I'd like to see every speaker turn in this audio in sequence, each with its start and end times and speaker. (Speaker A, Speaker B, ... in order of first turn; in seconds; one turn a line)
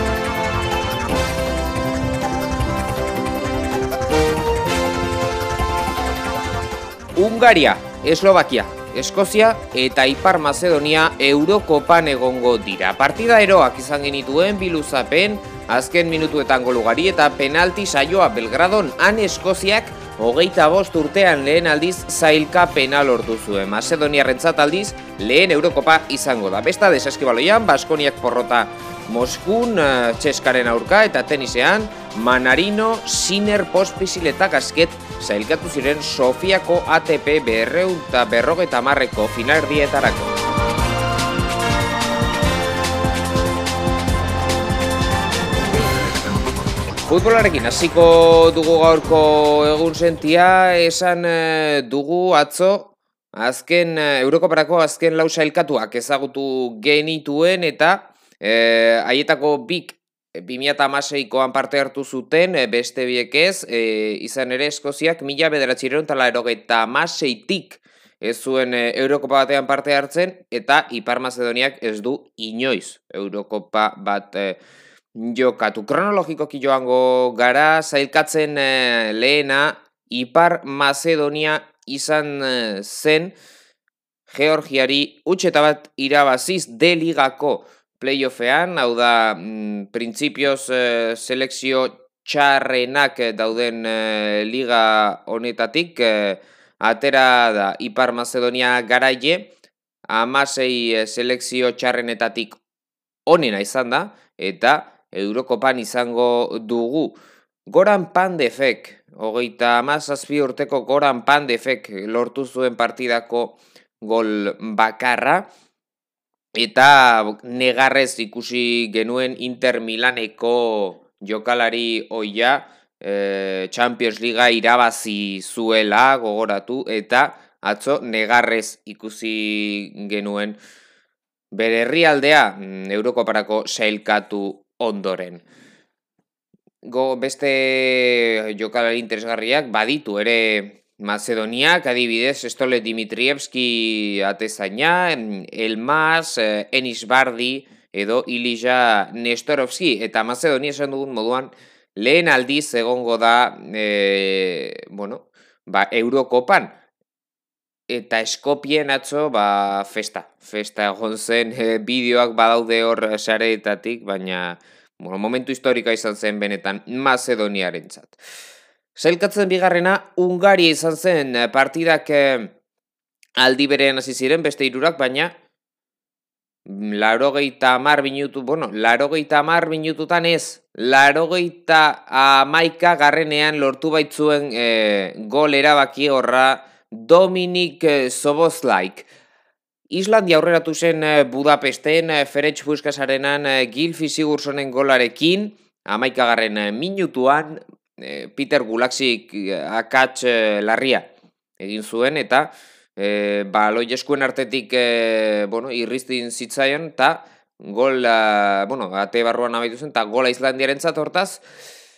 Speaker A: 7.2-40.3
Speaker A: 47.1-74.6
Speaker A: 75.1-83.4
Speaker A: 84.3-99.5
Speaker A: 100.1-102.6
Speaker A: 103.3-107.2
Speaker A: 107.7-115.5
Speaker A: 116.6-130.6
Speaker A: 131.5-135.4
Speaker A: 136.8-156.8
Speaker A: 157.9-168.2
Speaker A: 169.0-172.5
Speaker A: 173.4-175.3
Speaker A: 176.7-189.1
Speaker A: 189.9-211.4